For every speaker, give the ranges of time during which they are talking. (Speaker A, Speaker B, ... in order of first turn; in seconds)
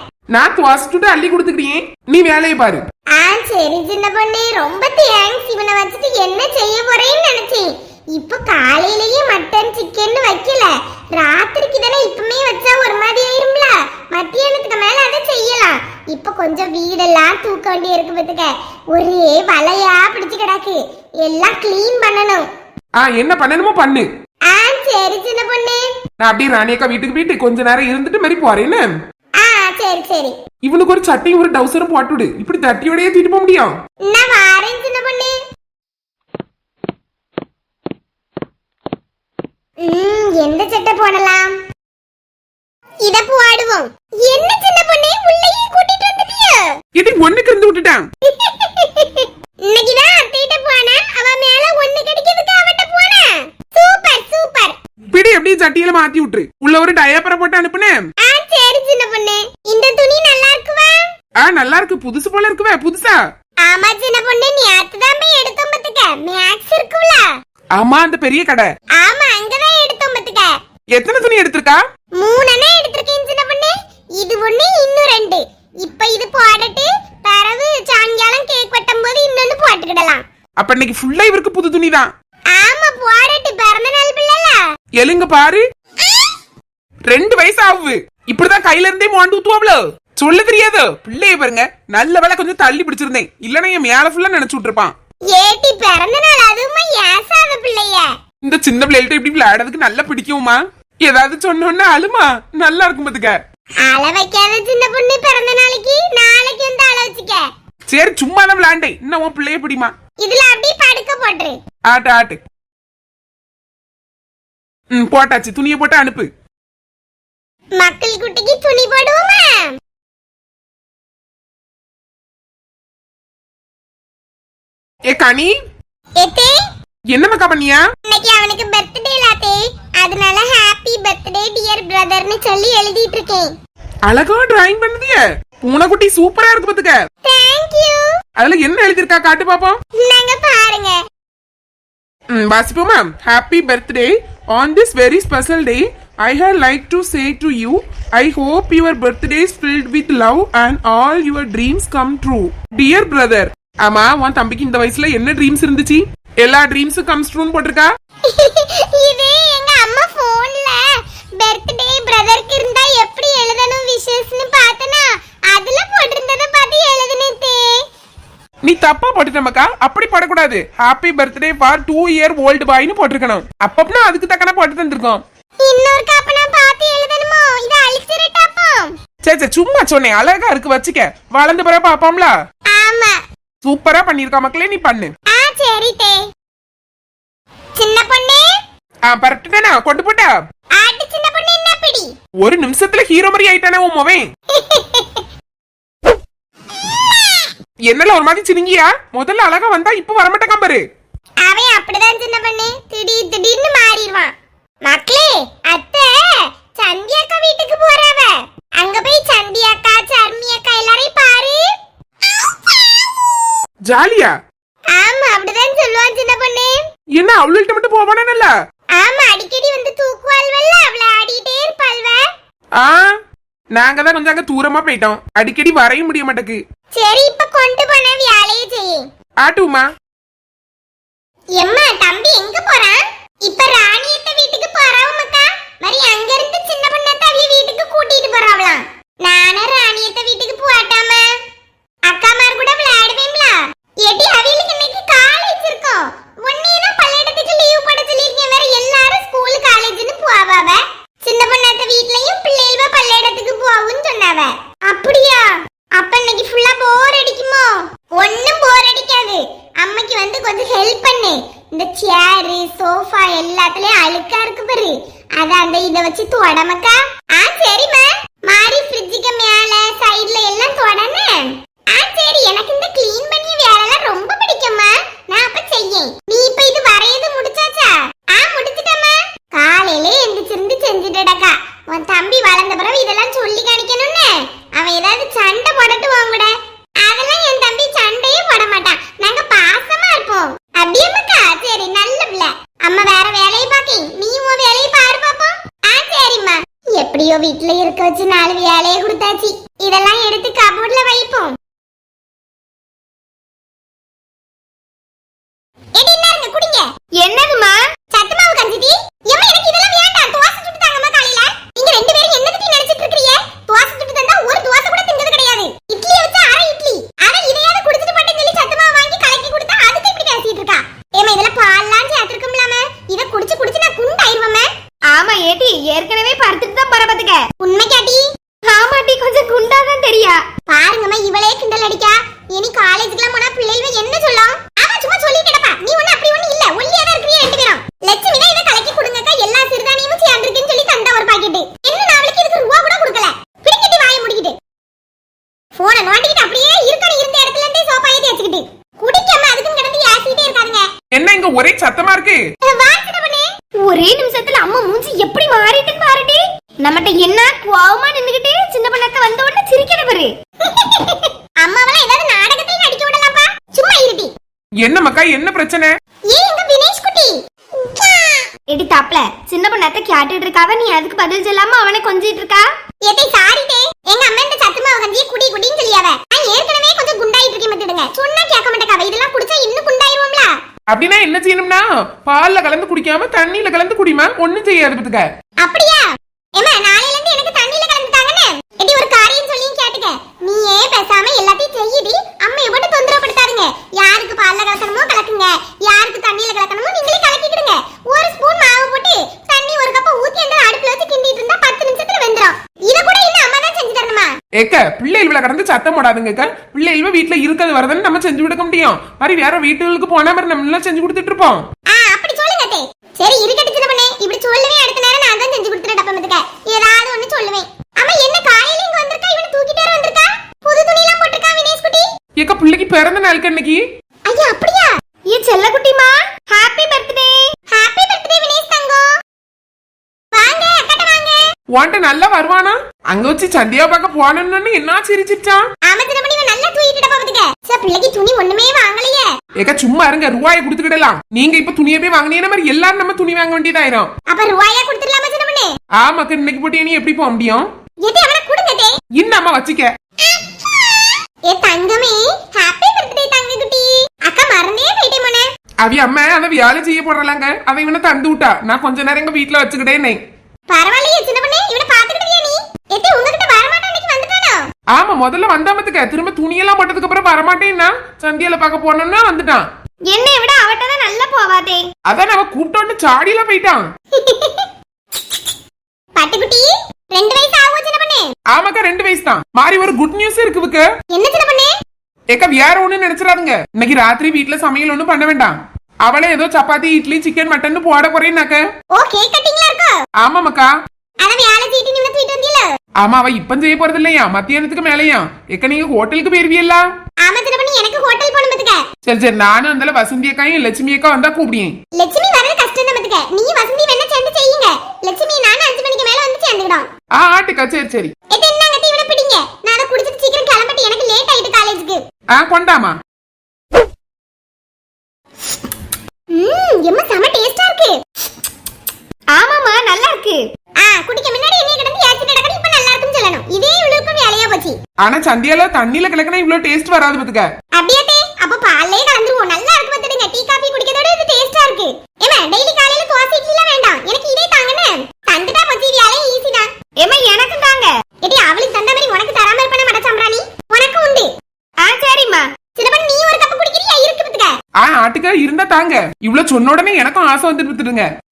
Speaker A: 0.3-2.8, 23.0-24.1, 26.2-28.9, 30.6-33.8, 46.9-48.1, 55.1-58.0, 61.4-63.2, 67.7-68.7, 70.9-71.8, 80.6-82.1, 85.0-85.6, 87.1-94.9, 98.4-103.4, 107.9-109.9, 111.9-112.4, 114.9-116.3, 125.1-125.5, 127.1-127.8, 134.1-137.0, 138.4-139.8, 142.3-157.9, 168.6-175.2, 179.2-182.3, 183.6-185.1, 189.1-190.3, 192.4-194.3, 197.9-200.8, 213.9-214.3, 217.2-218.5, 222.8-223.1, 223.7-226.6, 229.4-229.9, 351.1-352.4, 364.8-365.9, 380.9-385.3, 404.6-411.6, 422.4-423.8, 431.7-435.6, 439.6-444.1, 446.0-447.7, 449.2-449.9, 455.8-460.2, 464.9-469.6, 472.1-473.8, 478.5-480.9, 482.3-488.6, 490.2-490.7, 493.0-496.9, 499.1-501.8, 507.2-508.1, 512.3-513.0, 525.0-527.5, 544.8-548.1
Speaker B: 3.1-22.5, 24.5-25.9, 29.4-30.3, 34.0-35.4, 39.8-41.6, 43.0-46.7, 48.2-54.8, 58.2-61.0, 63.6-67.3, 69.0-70.5, 72.2-80.2, 82.5-84.6, 95.3-98.1, 103.8-107.5, 110.2-111.6, 117.8-119.8, 126.2-126.6, 128.1-133.5, 137.2-138.1, 140.0-141.0, 158.2-167.8, 175.6-178.9, 182.7-183.2, 185.3-186.2, 187.8-188.5, 190.7-192.1, 194.5-195.2, 201.4-211.7, 212.3-212.8, 214.9-216.8, 218.9-222.2, 226.9-229.0, 231.6-241.3, 242.1-301.6, 305.9-306.9, 308.1-324.7, 327.6-328.2, 330.7-344.6, 345.8-350.9, 352.6-353.5, 360.6-364.3, 366.3-368.4, 373.0-380.5, 385.6-386.0, 386.6-404.3, 411.9-422.1, 424.3-424.9, 427.7-429.1, 430.3-431.4, 435.8-439.3, 444.3-445.7, 448.0-448.9, 451.5-455.5, 460.7-464.6, 474.2-474.7, 476.1-478.3, 481.1-481.7, 488.9-490.0, 491.2-492.7, 497.2-498.8, 501.9-506.9, 508.3-512.0, 516.3-518.0, 520.8-524.8, 527.7-536.7, 538.2-541.3, 542.8-544.5
Speaker C: 307.2-307.8, 325.1-327.4, 328.6-330.4, 353.8-360.3, 368.7-372.7, 425.3-427.5, 470.1-471.9, 519.3-520.4, 537.0-537.9, 541.8-542.5